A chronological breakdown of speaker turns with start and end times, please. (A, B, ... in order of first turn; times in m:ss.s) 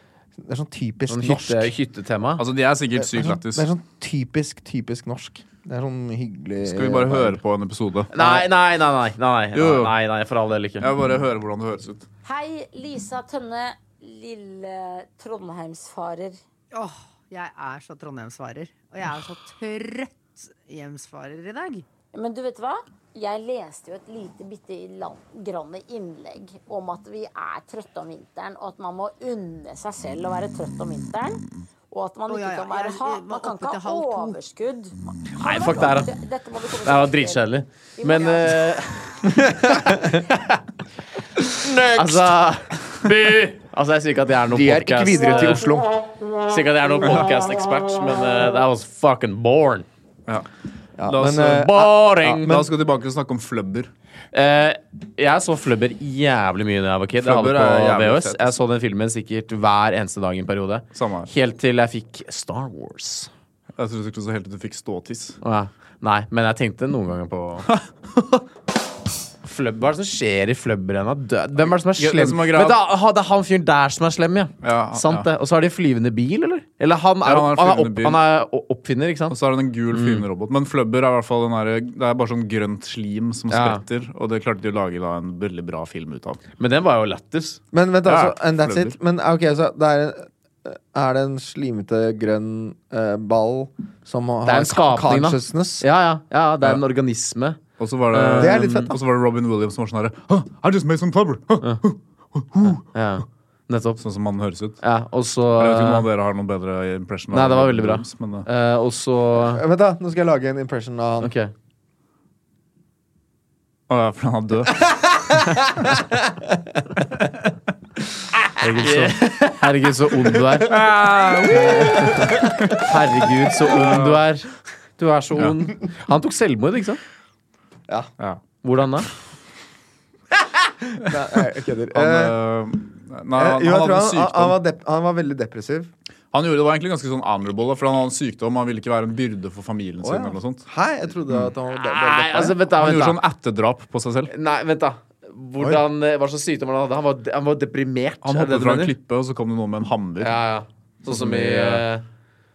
0:00.4-0:01.7 A
0:01.1-0:02.4 B
0:02.4-0:03.7 C
0:03.0-0:07.4 A
0:06.6-0:08.1 C
0:08.1-0:10.9 B
0:08.2-0:08.4 A
0:09.5-0:09.9 C
0:10.8-0:12.0 C
0:12.2-0:16.4 D
0:16.7-0:21.8 E
0:22.1-0:38.6 D
0:32.3-0:34.4 E
0:35.4-0:36.1 B
0:36.8-0:40.2 B
0:39.4-0:40.2 A
0:41.5-0:45.6 B
0:41.7-0:42.2 A
0:44.5-0:45.9 A
0:46.4-0:49.8 B
0:51.0-0:52.7 A
0:51.0-0:53.9 C
0:51.5-0:52.6 B
0:54.3-1:03.3 B
0:57.2-0:58.5 C
1:00.9-1:01.3 C
1:03.8-1:05.4 C
1:05.4-1:07.7 B
1:07.7-1:08.4 C
1:09.4-1:19.3 B
1:11.7-1:12.8 C
1:14.6-1:15.3 C
1:17.2-1:18.2 C
1:19.3-1:26.4 C
1:19.9-1:20.2 B
1:23.5-1:23.8 B
1:26.6-1:27.6 B
1:27.7-1:35.8 A
1:28.1-1:28.9 C
1:34.4-1:37.6 B
1:37.8-1:42.8 C
1:38.1-1:38.8 B
1:38.4-1:39.0 A
1:42.7-1:44.0 B
1:44.0-1:44.8 C
1:44.8-1:46.1 B
1:45.6-1:48.5 C
1:47.3-1:49.6 B
1:49.4-1:51.3 A
1:51.2-1:51.5 B
1:53.9-1:56.0 C
1:56.1-1:56.8 A
1:58.6-2:00.8 B
2:00.6-2:02.9 C
2:01.5-2:02.7 A
2:01.6-2:07.0 B
2:03.6-2:04.2 C
2:08.6-2:09.1 B
2:10.8-2:12.4 A
2:11.9-2:14.6 C
2:13.3-2:15.9 A
2:16.3-2:20.6 C
2:20.0-2:22.6 A
2:21.7-2:23.2 B
2:22.7-2:24.3 C
2:24.3-2:28.9 B
2:28.2-2:30.4 C
2:30.2-2:32.0 B
2:31.0-2:31.8 C